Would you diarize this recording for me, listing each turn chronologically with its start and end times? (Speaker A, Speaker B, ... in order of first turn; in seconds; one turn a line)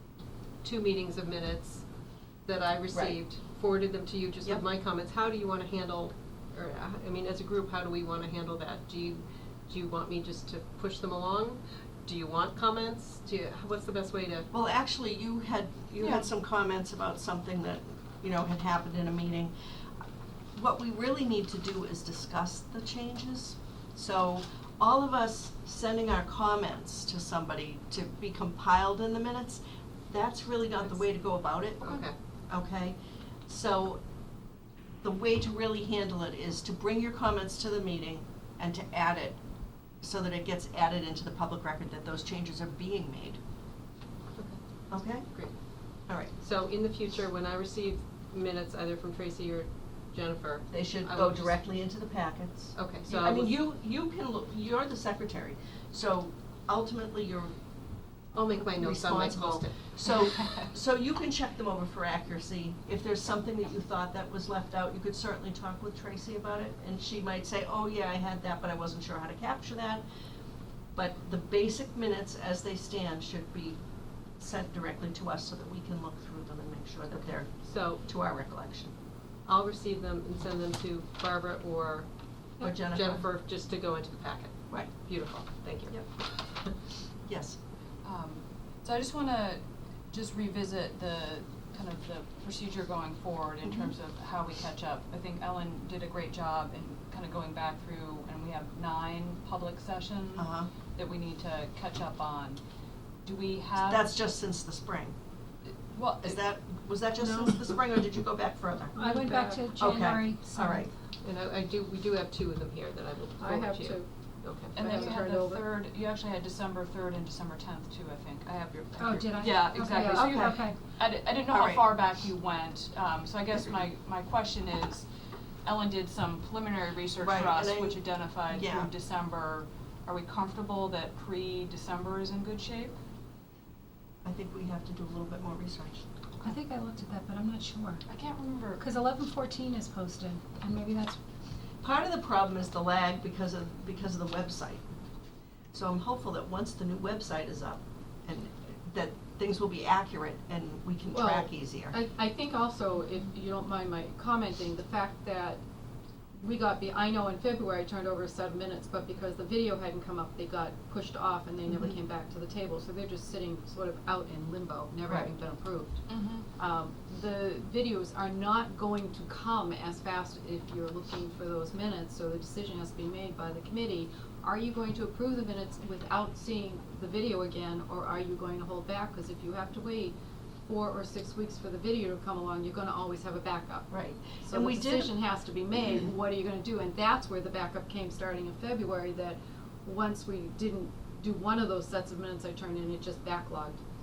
Speaker A: 0.6-1.9
Speaker A: 2.5-14.5
Speaker B: 2.9-3.2
Speaker B: 14.5-19.5
Speaker C: 16.0-16.3
Speaker B: 20.6-33.0
Speaker A: 31.8-32.1
Speaker B: 33.5-34.0
Speaker B: 35.0-39.4
Speaker B: 40.0-43.4
Speaker B: 44.9-45.3
Speaker A: 45.3-45.5
Speaker A: 46.4-51.6
Speaker B: 50.7-57.5
Speaker A: 52.8-53.6
Speaker A: 58.3-59.8
Speaker B: 58.8-70.0
Speaker B: 71.0-73.8
Speaker B: 74.4-77.5
Speaker A: 77.6-78.0
Speaker B: 78.1-78.9
Speaker A: 79.5-82.1
Speaker B: 82.6-83.3
Speaker A: 82.6-86.0
Speaker B: 87.3-87.6
Speaker C: 88.0-102.6
Speaker B: 93.7-93.9
Speaker B: 100.4-100.7
Speaker C: 103.2-104.1
Speaker B: 103.8-105.1
Speaker C: 105.9-106.4
Speaker B: 106.2-109.0
Speaker D: 109.0-110.9
Speaker E: 109.0-109.6
Speaker B: 109.8-110.9
Speaker A: 111.2-115.1
Speaker E: 113.4-114.1
Speaker C: 114.7-125.1
Speaker E: 114.8-115.7
Speaker D: 119.0-120.8
Speaker E: 119.8-120.5
Speaker B: 121.5-121.9
Speaker C: 125.6-133.0
Speaker B: 127.2-128.9
Speaker B: 134.2-136.1
Speaker D: 136.4-138.1
Speaker C: 138.1-138.8
Speaker D: 138.8-141.2
Speaker B: 141.8-144.8
Speaker B: 145.7-151.9
Speaker E: 151.1-155.6
Speaker E: 156.3-166.0
Speaker C: 166.1-166.5
Speaker E: 166.6-180.2
Speaker E: 180.7-193.8
Speaker B: 183.9-185.1